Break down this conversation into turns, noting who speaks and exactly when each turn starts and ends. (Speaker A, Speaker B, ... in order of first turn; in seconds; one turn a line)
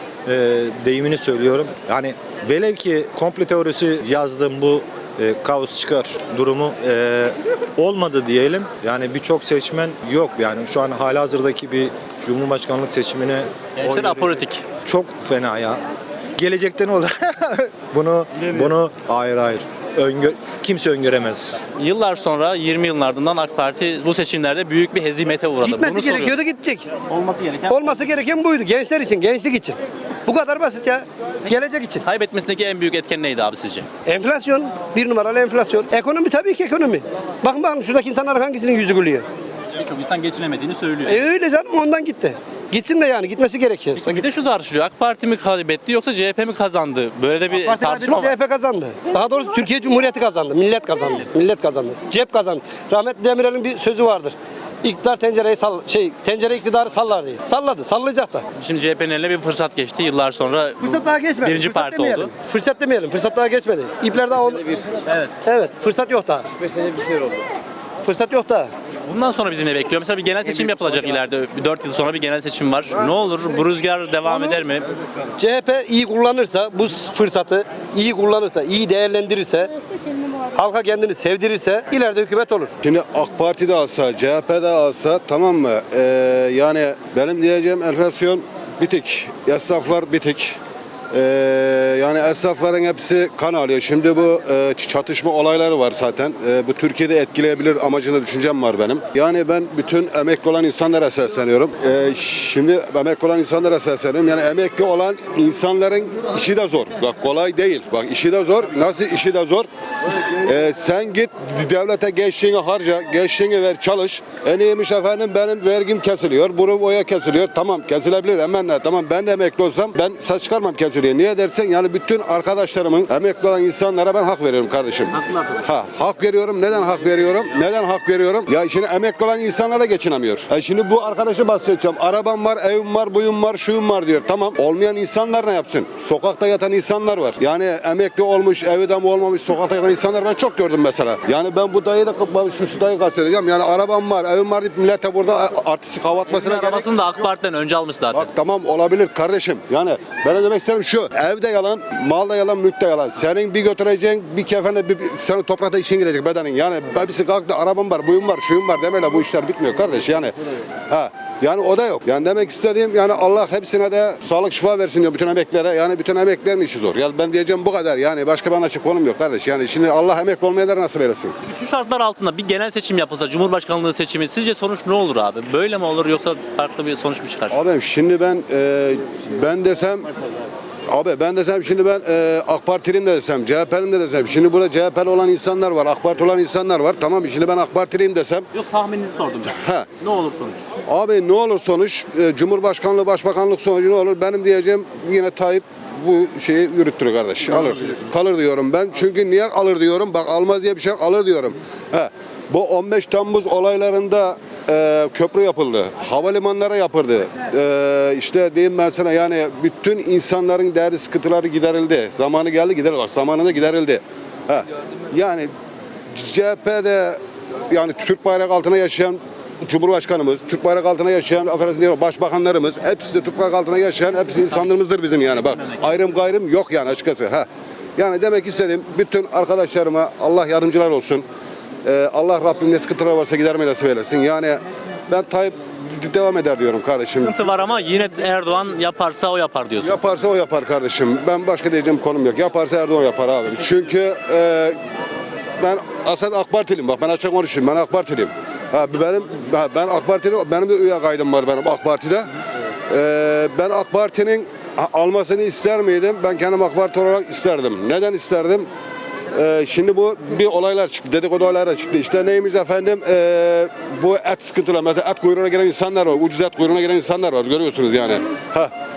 Speaker A: 0.3-15.8
Speaker B: 13.8-14.6
Speaker A: 16.4-21.6
Speaker B: 21.8-26.4
Speaker C: 25.6-26.9
Speaker B: 27.1-28.0
Speaker C: 27.7-32.0
Speaker B: 32.0-33.9
Speaker C: 34.1-39.3
Speaker B: 39.8-41.3
Speaker C: 41.1-44.3
Speaker B: 44.0-48.4
Speaker C: 47.5-58.5
Speaker B: 58.6-62.3
Speaker C: 60.8-64.9
Speaker B: 65.1-65.3
Speaker C: 65.5-66.9
Speaker C: 68.0-68.7
Speaker B: 69.1-74.9
Speaker C: 70.7-71.0
Speaker C: 75.4-79.7
Speaker C: 80.5-82.8
Speaker D: 82.8-90.6
Speaker D: 91.1-109.7
Speaker D: 110.4-146.9
Speaker B: 125.1-125.7
Speaker B: 126.9-127.6
Speaker B: 146.3-148.3
Speaker D: 148.1-160.3
Speaker D: 160.9-171.3
Speaker B: 171.4-177.6
Speaker D: 177.5-180.1
Speaker D: 180.9-188.5
Speaker B: 188.5-190.6
Speaker D: 189.5-189.9
Speaker D: 190.9-215.5
Speaker B: 197.5-198.1
Speaker D: 216.1-231.2
Speaker B: 225.5-225.8
Speaker D: 231.8-237.4
Speaker B: 237.2-240.0
Speaker D: 239.8-244.8
Speaker D: 245.6-252.3
Speaker D: 252.9-258.7
Speaker D: 259.3-268.7